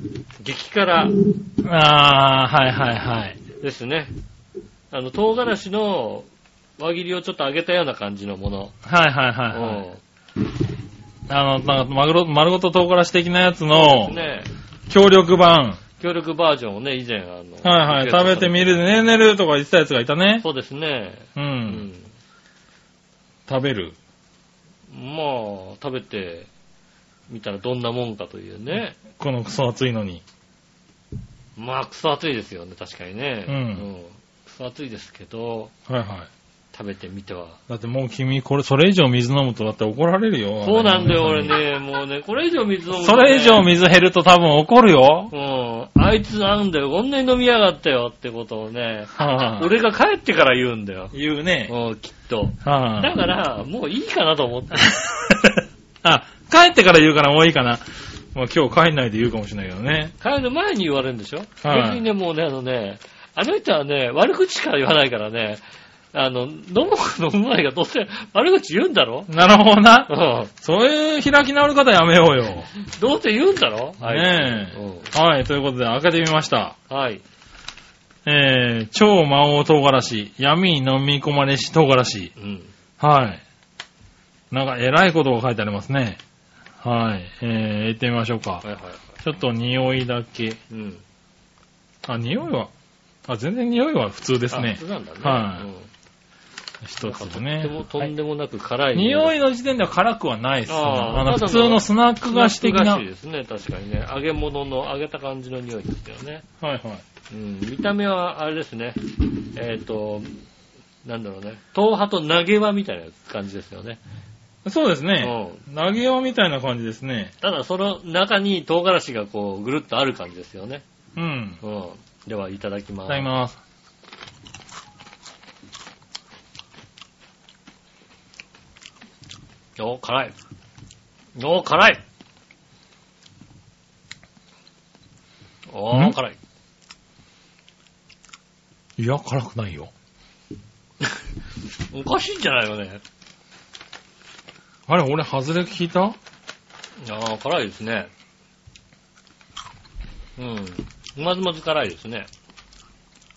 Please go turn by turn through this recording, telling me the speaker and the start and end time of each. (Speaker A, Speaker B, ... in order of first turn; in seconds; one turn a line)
Speaker A: 0.4-1.2
Speaker B: 1.6-3.4
Speaker A: 3.6-4.2
Speaker A: 4.9-6.3
Speaker A: 6.8-8.8
Speaker B: 8.8-9.8
Speaker A: 9.5-10.0
Speaker B: 11.3-14.2
Speaker A: 13.7-14.5
Speaker B: 14.9-15.8
Speaker A: 16.0-18.9
Speaker B: 17.6-20.4
Speaker A: 20.4-22.1
Speaker B: 21.4-21.9
Speaker B: 23.5-23.9
Speaker A: 24.9-26.5
Speaker A: 27.3-29.0
Speaker B: 29.0-30.2
Speaker A: 31.6-35.7
Speaker B: 33.5-33.9
Speaker B: 35.9-36.3
Speaker A: 36.7-37.6
Speaker B: 37.7-41.6
Speaker A: 40.6-43.7
Speaker B: 42.9-45.3
Speaker A: 45.3-51.1
Speaker B: 49.1-49.7
Speaker B: 51.1-51.7
Speaker A: 51.7-54.9
Speaker B: 52.6-53.2
Speaker B: 54.8-60.1
Speaker A: 60.2-65.6
Speaker B: 61.6-62.1
Speaker A: 66.1-69.3
Speaker B: 69.3-72.7
Speaker A: 70.1-70.5
Speaker A: 72.8-75.1
Speaker B: 74.0-76.8
Speaker A: 76.9-77.2
Speaker B: 78.2-82.3
Speaker A: 82.4-82.7
Speaker B: 83.0-83.4
Speaker B: 84.5-86.2
Speaker B: 86.8-88.6
Speaker A: 88.6-89.0
Speaker B: 89.2-90.6
Speaker A: 90.7-91.0
Speaker B: 92.1-92.7
Speaker B: 93.3-95.7
Speaker A: 94.5-95.9
Speaker B: 96.8-98.1
Speaker A: 97.0-99.3
Speaker B: 98.9-103.0
Speaker A: 100.7-106.5
Speaker B: 106.6-107.0
Speaker A: 107.3-110.3
Speaker A: 111.0-114.0
Speaker B: 114.7-117.3
Speaker A: 115.2-115.6
Speaker A: 117.4-120.8
Speaker B: 121.2-121.6
Speaker A: 121.6-123.3
Speaker B: 123.1-123.6
Speaker A: 129.8-130.3
Speaker A: 131.4-132.0
Speaker A: 135.7-136.4
Speaker B: 139.0-139.9
Speaker A: 141.9-143.0
Speaker B: 144.9-146.2
Speaker A: 147.0-148.1
Speaker A: 150.4-152.3